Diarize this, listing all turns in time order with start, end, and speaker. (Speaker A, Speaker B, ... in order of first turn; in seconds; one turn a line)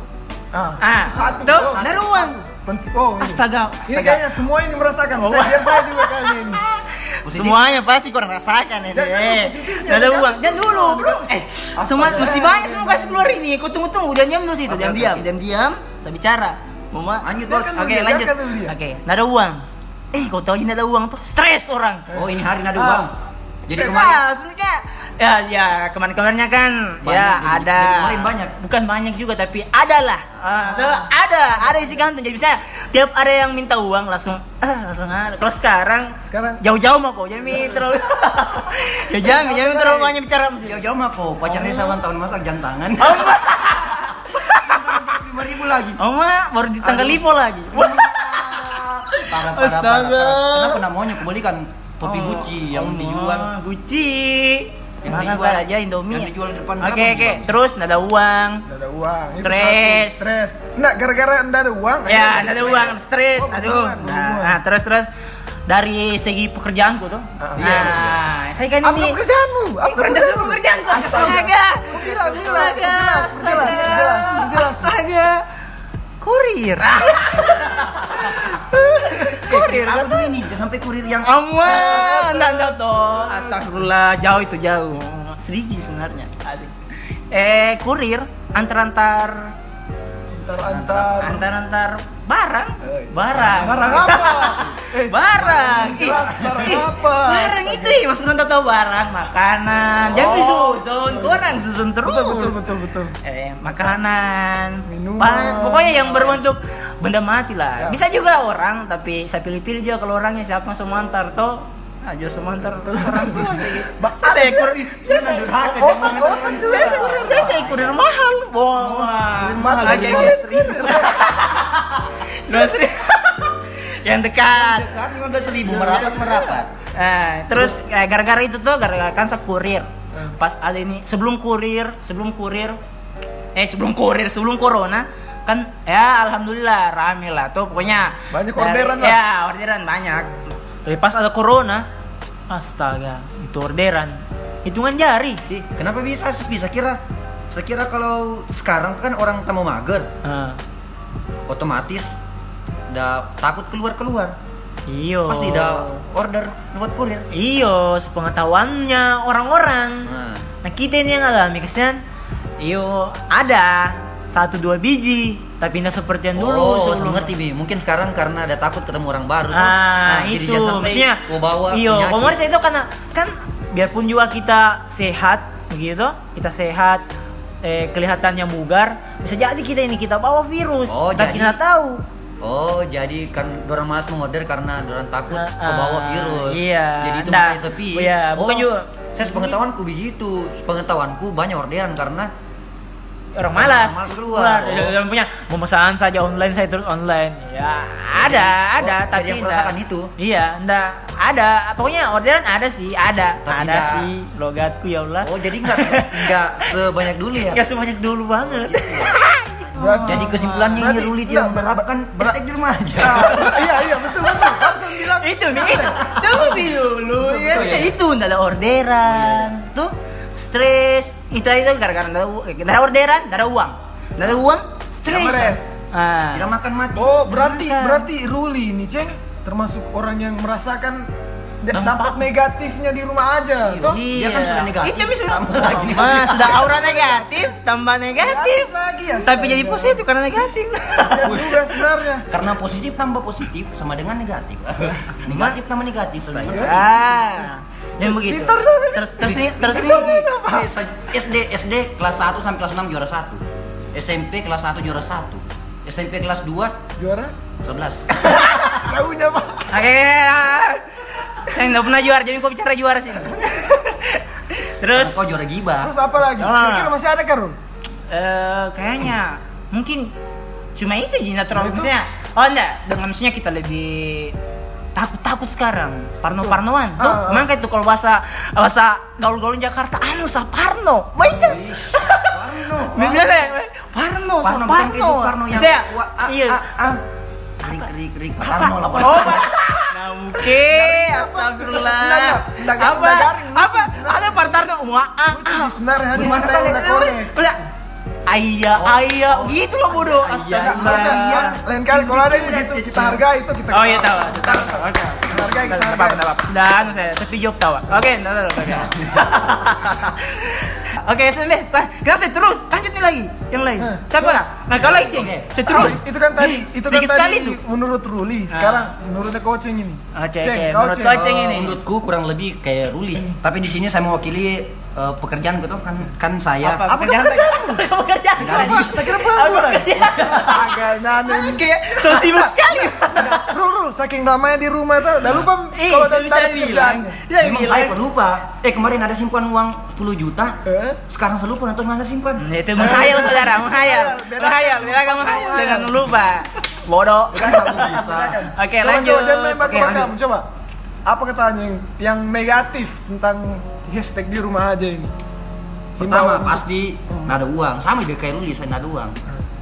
Speaker A: 0.5-6.6
Speaker B: 0.8-2.4
Speaker C: 1.5-2.0
Speaker B: 3.2-4.2
Speaker B: 5.2-22.1
Speaker C: 7.2-7.6
Speaker A: 8.9-13.3
Speaker C: 14.7-15.2
Speaker C: 17.2-17.8
Speaker A: 17.4-18.7
Speaker A: 22.1-23.1
Speaker C: 22.1-24.2
Speaker B: 23.7-40.8
Speaker C: 27.0-28.5
Speaker A: 30.6-31.1
Speaker A: 31.6-32.0
Speaker A: 36.2-36.6
Speaker A: 37.5-37.9
Speaker A: 39.2-40.1
Speaker C: 40.6-46.0
Speaker B: 41.4-42.0
Speaker B: 43.0-45.0
Speaker B: 46.0-50.8
Speaker C: 46.8-47.2
Speaker C: 47.7-53.5
Speaker B: 52.0-58.6
Speaker C: 55.0-57.6
Speaker A: 58.7-64.6
Speaker B: 59.4-60.3
Speaker B: 62.0-65.1
Speaker B: 65.7-69.2
Speaker A: 67.4-68.1
Speaker C: 67.6-68.1
Speaker A: 68.8-75.0
Speaker B: 69.8-75.4
Speaker C: 70.9-72.4
Speaker C: 73.4-74.1
Speaker B: 76.2-80.2
Speaker C: 77.5-78.2
Speaker C: 79.3-81.7
Speaker B: 81.2-86.7
Speaker A: 81.7-83.7
Speaker B: 87.3-89.5
Speaker A: 90.3-91.4
Speaker C: 90.6-91.3
Speaker B: 91.2-102.5
Speaker A: 92.8-98.0
Speaker C: 93.3-94.3
Speaker C: 100.1-100.5
Speaker A: 100.1-101.5
Speaker A: 102.0-103.1
Speaker B: 103.2-115.5
Speaker A: 104.9-106.4
Speaker A: 112.7-117.6
Speaker C: 115.0-118.0
Speaker B: 116.3-124.9
Speaker C: 118.8-121.1
Speaker A: 119.5-121.3
Speaker C: 124.5-126.7
Speaker B: 125.7-132.8
Speaker B: 133.5-141.9
Speaker A: 138.3-139.2
Speaker B: 142.5-145.4
Speaker C: 145.5-150.1
Speaker B: 150.2-150.6
Speaker C: 151.5-152.2
Speaker C: 152.9-154.4
Speaker B: 154.9-156.0
Speaker C: 155.3-157.3
Speaker B: 157.3-160.1
Speaker C: 160.0-160.4
Speaker B: 160.6-162.0
Speaker B: 162.6-167.3
Speaker C: 166.3-172.4
Speaker B: 169.5-177.0
Speaker B: 177.6-182.0
Speaker C: 180.9-181.6
Speaker C: 182.4-192.3
Speaker B: 185.3-189.6
Speaker B: 193.3-206.7
Speaker C: 193.5-195.0
Speaker C: 198.1-200.1
Speaker C: 203.4-204.1
Speaker C: 205.2-207.6
Speaker B: 207.5-210.8
Speaker C: 208.4-209.1
Speaker A: 209.8-212.4
Speaker C: 210.1-213.5
Speaker A: 213.0-217.8
Speaker B: 213.0-226.4
Speaker C: 217.5-217.9
Speaker C: 219.1-219.5
Speaker A: 225.1-225.8
Speaker C: 226.3-227.1
Speaker A: 226.9-231.1
Speaker B: 227.3-228.1
Speaker A: 231.6-233.9
Speaker B: 231.7-232.2
Speaker C: 233.6-236.8
Speaker B: 233.8-238.7
Speaker A: 236.5-237.5
Speaker A: 238.2-240.0
Speaker B: 239.2-241.7
Speaker A: 241.0-242.3
Speaker C: 241.2-241.6
Speaker C: 242.3-246.9
Speaker B: 245.2-245.6
Speaker B: 246.4-250.7
Speaker A: 246.5-246.9
Speaker A: 248.0-249.3
Speaker C: 249.2-253.4
Speaker C: 253.9-256.8
Speaker A: 257.0-257.3
Speaker C: 257.6-258.1
Speaker B: 258.2-258.6
Speaker A: 258.2-259.7
Speaker B: 259.7-265.2
Speaker C: 264.9-265.9
Speaker A: 265.8-267.6
Speaker B: 266.4-266.9
Speaker B: 268.1-270.1
Speaker B: 270.8-274.3
Speaker A: 271.5-271.9
Speaker B: 274.9-286.7
Speaker A: 276.4-277.5
Speaker C: 281.3-283.4
Speaker C: 284.4-287.0
Speaker C: 287.6-289.6
Speaker B: 288.4-295.7
Speaker A: 290.4-294.5
Speaker A: 295.3-297.5
Speaker C: 296.1-297.1
Speaker B: 296.6-297.6
Speaker B: 298.3-301.6
Speaker C: 298.7-303.2
Speaker A: 300.5-306.2
Speaker B: 303.7-317.6
Speaker C: 308.6-309.9
Speaker A: 313.8-314.4
Speaker C: 314.7-316.0
Speaker A: 315.6-321.3
Speaker B: 318.5-318.9
Speaker B: 320.1-321.8
Speaker C: 321.2-327.7
Speaker B: 326.6-333.5
Speaker C: 328.4-329.2
Speaker A: 328.6-337.2
Speaker C: 330.0-330.3
Speaker B: 335.7-338.0
Speaker C: 337.4-343.2
Speaker A: 340.6-341.0
Speaker B: 342.4-347.9
Speaker A: 342.8-346.1
Speaker C: 347.3-348.5
Speaker A: 347.3-350.4
Speaker B: 348.5-350.1
Speaker A: 351.1-355.1
Speaker C: 356.0-359.1
Speaker A: 356.0-357.4